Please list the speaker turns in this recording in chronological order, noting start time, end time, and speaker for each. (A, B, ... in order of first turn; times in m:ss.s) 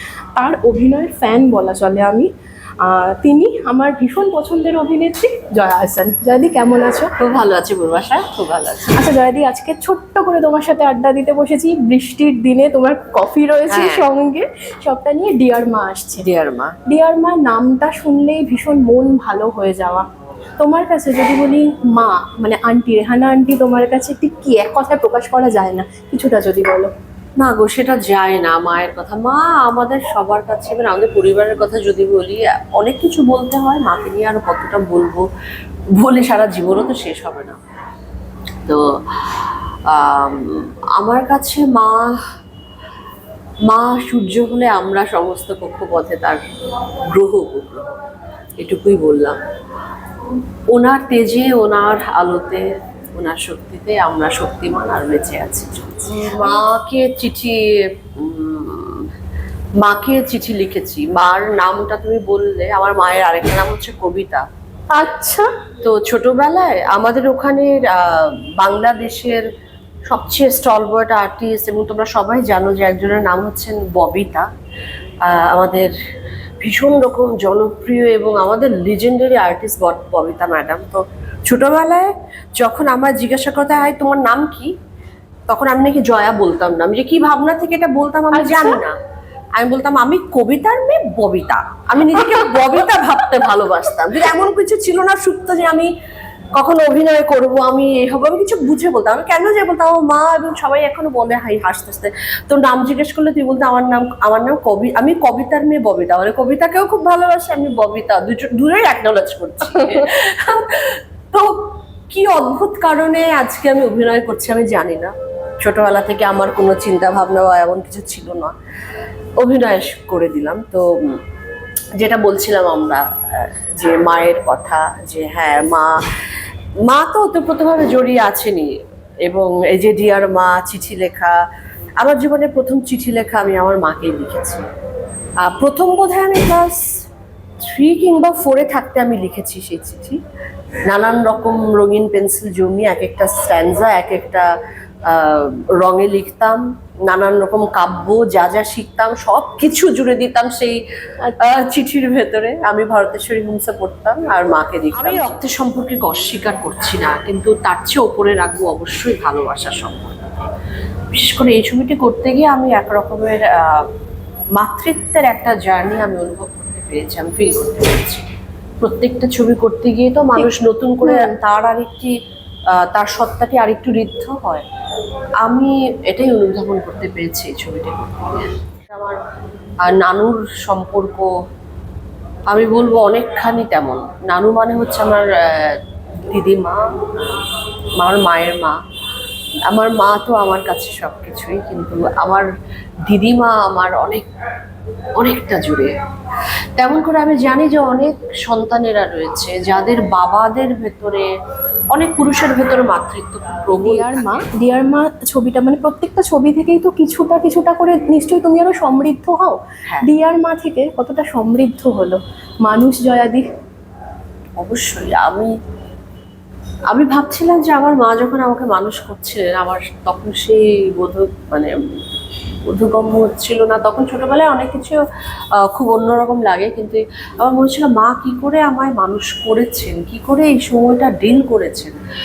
0:00.4-0:02.3 A
0:02.8-0:07.1 A
0:07.2-0:09.0 B
0:09.0-0:16.2 A
0:13.7-0:14.1 B
0:16.2-0:16.8 B
0:16.9-0:20.0 A
0:20.6-0:26.9 A
0:27.4-0:35.3 B
0:36.0-0:37.6 B
0:38.7-0:42.2 B
0:43.7-0:46.4 B
0:47.1-0:47.9 B
0:48.6-0:49.4 B
0:50.7-0:59.0 B
0:56.2-0:56.6 A
0:59.8-1:04.4 B
1:04.9-1:05.5 A
1:05.8-1:09.5 B
1:10.1-1:14.5 B
1:15.2-1:15.9 B
1:16.6-1:22.1 B
1:22.6-1:24.7 B
1:25.5-1:29.0 B
1:28.3-1:28.8 A
1:29.6-1:35.9 B
1:36.6-1:58.5 B
1:59.4-2:01.2 B
2:02.0-2:05.9 B
2:06.9-2:08.7 B
2:09.2-2:11.4 B
2:12.0-2:14.6 B
2:15.4-2:16.8 B
2:17.7-2:20.2 B
2:20.9-2:24.5 B
2:25.1-2:30.8 B
2:31.4-2:40.5 B
2:41.1-2:43.8 B
2:44.6-2:48.2 B
2:48.8-2:52.1 B
2:51.0-2:51.3 A
2:52.8-2:54.6 B
2:55.4-2:59.2 B
2:59.8-3:01.3 B
3:02.5-3:05.8 B
3:06.3-3:07.5 B
3:08.0-3:08.8 B
3:09.7-3:12.5 B
3:13.1-3:14.3 B
3:15.2-3:15.9 B
3:16.8-3:21.3 B
3:21.9-3:24.5 B
3:23.8-3:33.5 A
3:34.6-3:35.5 B
3:36.9-3:41.7 B
3:42.7-3:45.0 B
3:45.6-3:52.0 B